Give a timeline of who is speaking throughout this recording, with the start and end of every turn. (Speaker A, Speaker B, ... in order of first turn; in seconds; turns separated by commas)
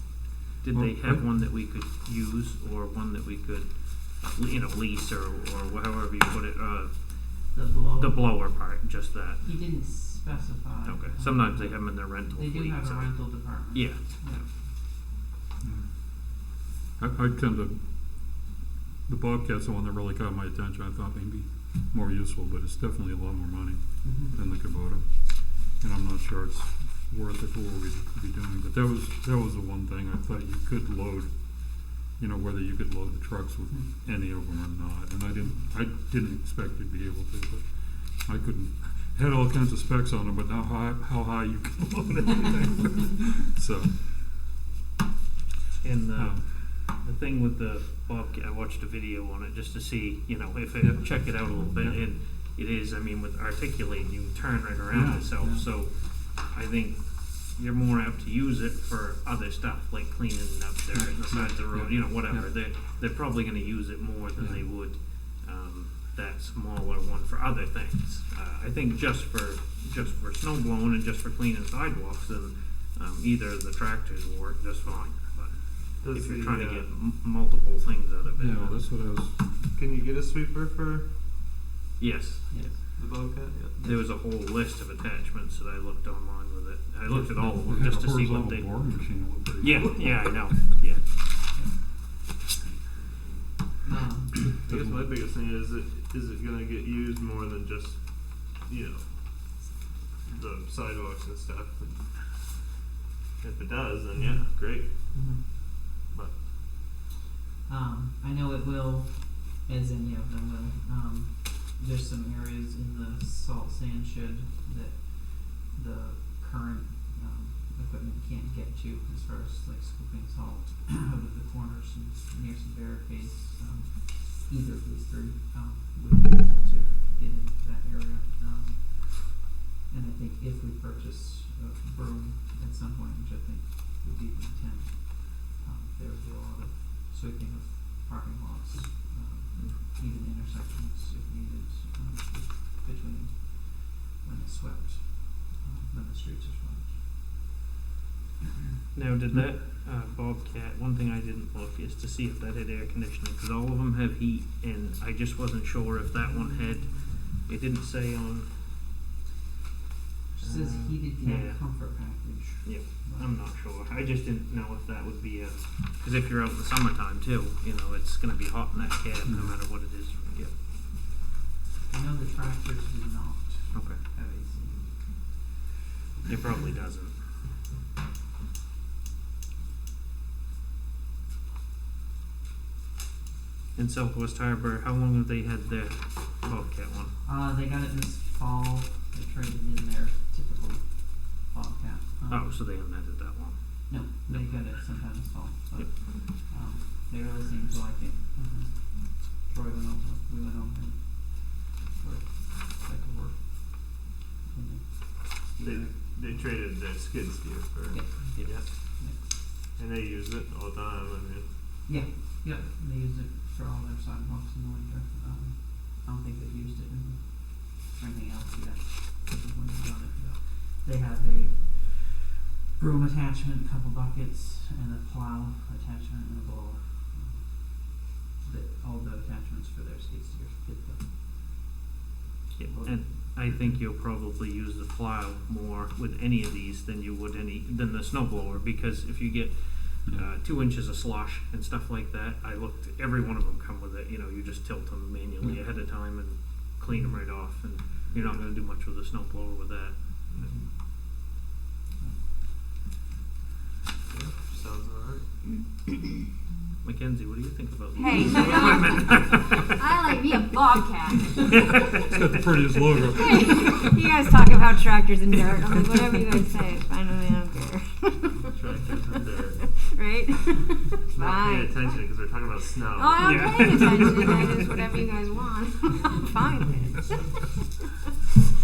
Speaker A: 0.6-9.5, Speaker B: 0.7-1.3, Speaker C: 7.5-8.5, Speaker C: 9.4-14.6, Speaker A: 10.8-14.4, Speaker B: 15.6-16.5, Speaker B: 17.0-18.5, Speaker B: 19.1-44.3, Speaker C: 24.0-24.4, Speaker A: 45.8-79.0, Speaker B: 46.1-46.5, Speaker B: 50.8-52.0, Speaker B: 54.9-55.4, Speaker C: 55.4-55.7, Speaker B: 60.9-62.5, Speaker B: 64.4-64.7, Speaker D: 76.0-76.9, Speaker B: 78.3-79.6, Speaker D: 79.7-81.1, Speaker A: 82.0-83.0, Speaker C: 82.5-84.2, Speaker D: 83.0-83.7, Speaker A: 83.8-89.1, Speaker C: 87.1-87.6, Speaker B: 87.5-90.3, Speaker A: 89.6-91.2, Speaker C: 91.5-91.9, Speaker C: 93.8-94.4, Speaker D: 94.6-102.4, Speaker B: 94.7-95.1, Speaker D: 103.4-105.5, Speaker C: 104.2-105.7, Speaker D: 106.1-106.5, Speaker C: 107.7-147.4, Speaker A: 148.9-158.9, Speaker C: 160.3-163.3, Speaker A: 160.4-170.5, Speaker B: 169.2-169.8, Speaker C: 171.8-175.5, Speaker A: 173.7-174.0, Speaker A: 176.3-177.4, Speaker A: 183.8-187.1, Speaker C: 187.2-192.6, Speaker A: 192.3-195.0, Speaker C: 193.9-206.5, Speaker D: 205.6-208.0, Speaker C: 207.9-209.3, Speaker A: 208.3-208.7, Speaker D: 209.8-211.5, Speaker C: 211.9-222.2, Speaker C: 222.7-231.1, Speaker A: 232.5-250.6, Speaker C: 232.7-233.7, Speaker C: 245.4-246.3, Speaker C: 246.9-247.7, Speaker D: 248.1-248.4, Speaker C: 250.4-250.8, Speaker C: 252.0-252.3, Speaker D: 254.1-255.3, Speaker A: 256.8-259.8, Speaker E: 258.0-259.3, Speaker E: 259.8-261.5, Speaker A: 261.4-262.2, Speaker B: 261.7-263.9, Speaker E: 263.1-268.5, Speaker D: 268.4-269.6, Speaker E: 269.1-272.0, Speaker D: 271.1-273.8, Speaker E: 272.9-277.0, Speaker A: 273.2-275.0